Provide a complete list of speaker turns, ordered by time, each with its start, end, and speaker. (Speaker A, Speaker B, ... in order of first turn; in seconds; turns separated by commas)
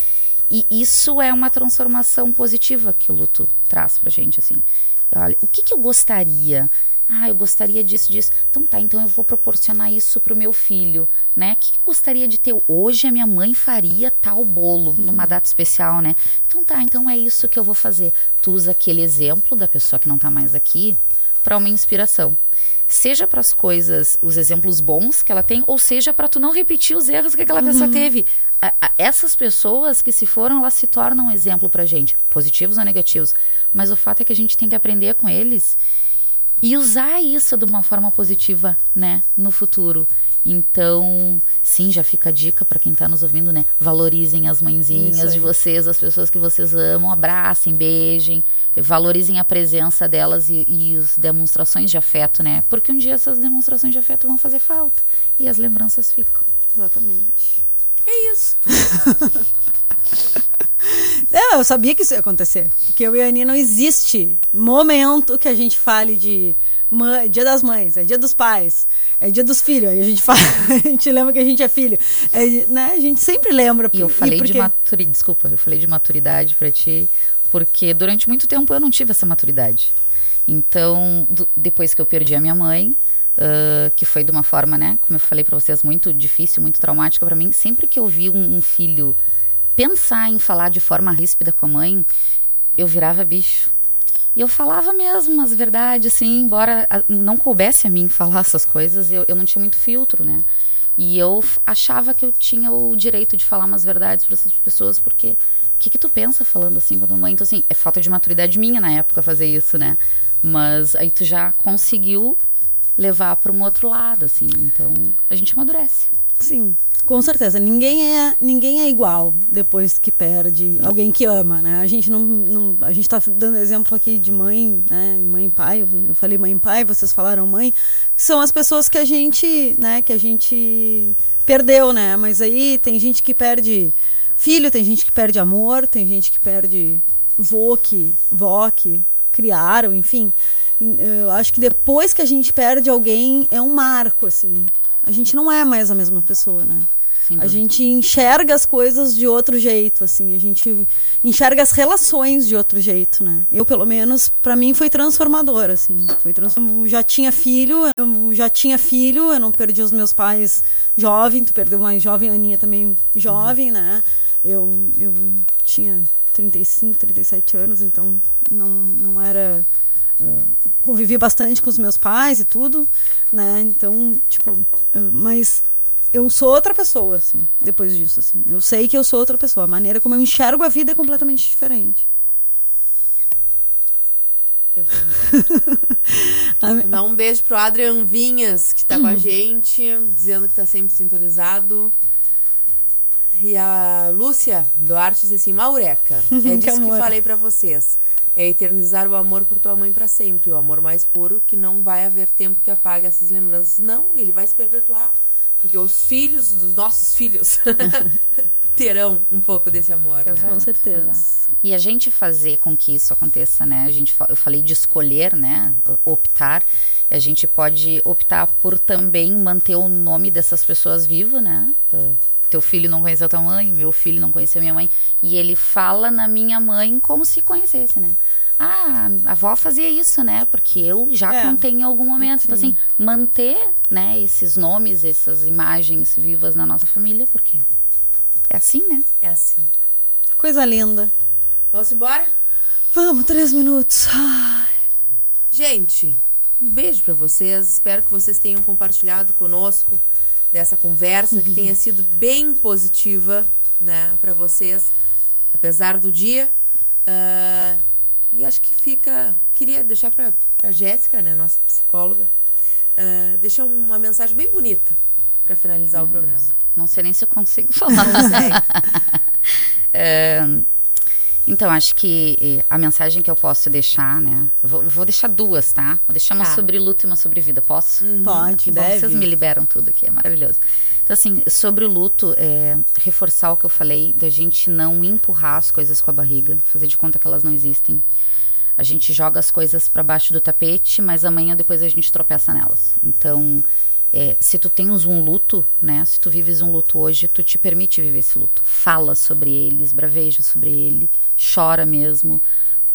Speaker A: 0.5-35.8, Speaker B: 27.6-28.1, Speaker A: 36.6-56.5, Speaker B: 44.9-45.5, Speaker B: 56.8-57.6, Speaker C: 58.1-59.0, Speaker B: 58.9-59.4, Speaker B: 60.8-74.7, Speaker A: 73.9-79.9, Speaker A: 80.5-89.2, Speaker A: 89.8-92.1, Speaker A: 92.8-93.7, Speaker A: 94.3-100.5, Speaker A: 101.0-112.4, Speaker A: 113.0-116.1, Speaker B: 116.4-169.7, Speaker A: 147.3-147.6, Speaker B: 170.2-182.1, Speaker C: 184.8-185.3, Speaker B: 185.3-186.9, Speaker C: 186.8-191.9, Speaker C: 193.3-208.2, Speaker B: 196.4-197.1, Speaker C: 208.8-210.6, Speaker A: 210.2-237.7, Speaker B: 210.4-211.4, Speaker B: 231.3-231.6, Speaker B: 232.2-232.8, Speaker A: 238.5-239.1, Speaker C: 239.2-239.7, Speaker B: 240.4-241.1, Speaker C: 241.7-242.3, Speaker B: 242.9-244.8, Speaker C: 245.5-254.9, Speaker C: 255.5-256.5, Speaker C: 257.1-262.3, Speaker C: 263.0-266.5, Speaker A: 266.7-270.7, Speaker C: 268.2-268.5, Speaker A: 271.5-288.0, Speaker C: 278.0-278.6, Speaker B: 278.2-279.3, Speaker A: 288.8-302.4